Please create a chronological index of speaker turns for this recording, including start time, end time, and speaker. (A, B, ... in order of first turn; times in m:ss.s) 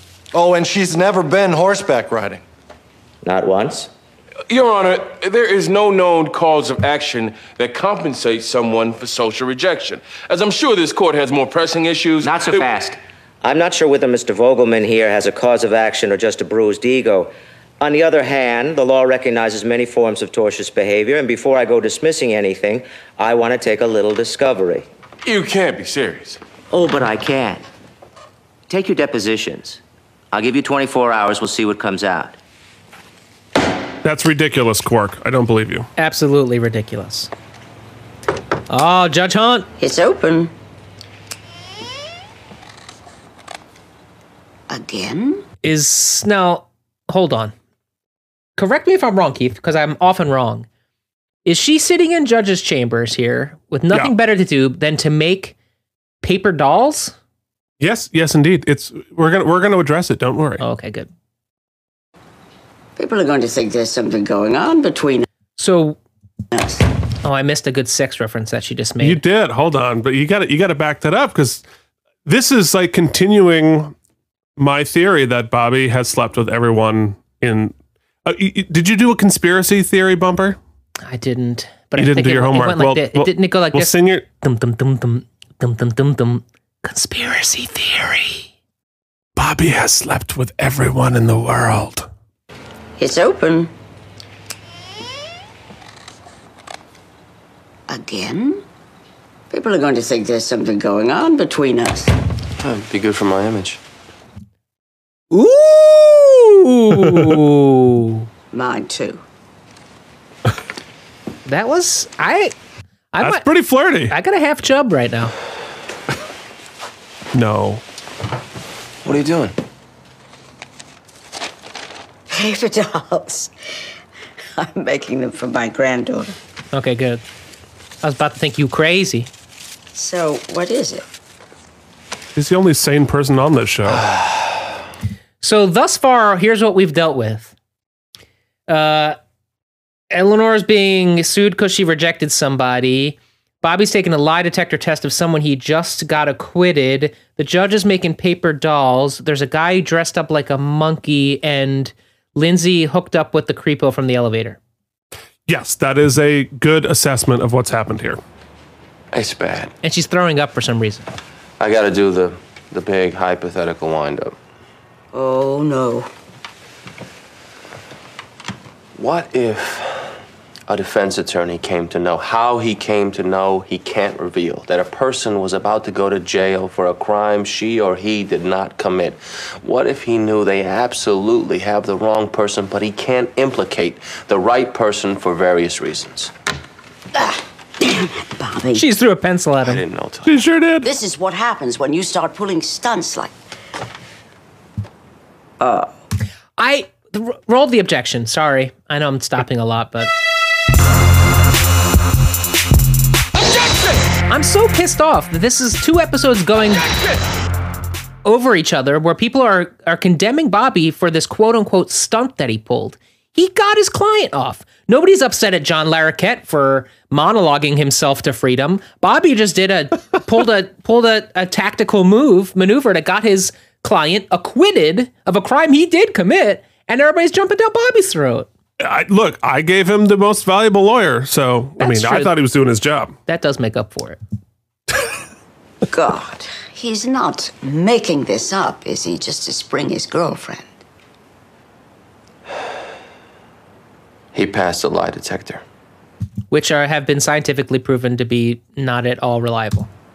0:00.3-0:02.4 A
0:03.2-0:03.9 B
0:04.5-0:12.7 C
0:12.2-0:24.9 B
0:25.2-0:26.4 C
0:26.7-0:27.6 B
0:28.7-0:29.8 B
0:30.3-0:32.4 B
0:34.0-0:35.9 D
0:36.0-0:37.3 E
0:38.7-0:39.7 E
0:39.8-0:40.5 F
0:44.7-0:45.4 F
0:45.6-0:47.5 E
0:48.6-0:50.7 E
0:51.4-0:55.6 E
0:56.2-0:57.1 E
0:57.8-1:00.6 D
1:00.6-1:01.1 E
1:03.0-1:05.2 F
1:05.6-1:06.0 E
1:06.5-1:06.8 F
1:07.2-1:09.2 E
1:09.0-1:11.6 D
1:12.3-1:13.9 D
1:14.6-1:17.7 D
1:18.2-1:20.6 D
1:21.0-1:28.5 E
1:22.0-1:24.2 D
1:29.4-1:32.1 D
1:33.0-1:33.7 F
1:37.9-1:38.6 F
1:39.5-1:42.1 F
1:42.6-1:43.8 G
1:45.3-1:48.3 E
1:48.5-1:49.2 F
1:51.5-1:52.5 E
1:53.1-1:55.3 E
1:53.2-1:54.1 D
1:57.3-1:57.8 D
1:59.0-1:59.6 G
2:02.3-2:03.5 F
2:04.6-2:06.3 F
2:06.7-2:07.2 E
2:08.0-2:09.3 E
2:09.9-2:11.0 F
2:12.4-2:14.1 D
2:15.4-2:17.5 E
2:18.7-2:19.2 E
2:20.1-2:34.6 E
2:35.5-2:38.2 D
2:39.1-2:39.7 G
2:39.8-2:41.1 E
2:41.6-2:44.4 G
2:45.1-2:46.1 F
2:49.0-2:50.1 G
2:50.7-3:06.3 G
3:07.8-3:08.8 F
3:08.8-3:09.8 E
3:09.6-3:10.4 G
3:10.3-3:10.9 D
3:10.8-3:13.3 F
3:15.6-3:15.9 F
3:16.6-3:20.1 E
3:24.3-3:27.0 E
3:28.2-3:48.5 E
3:48.8-3:53.2 D
3:51.8-3:52.3 E
3:53.3-3:54.2 E
3:55.9-4:00.7 F
4:04.3-4:05.6 G
4:06.5-4:09.9 E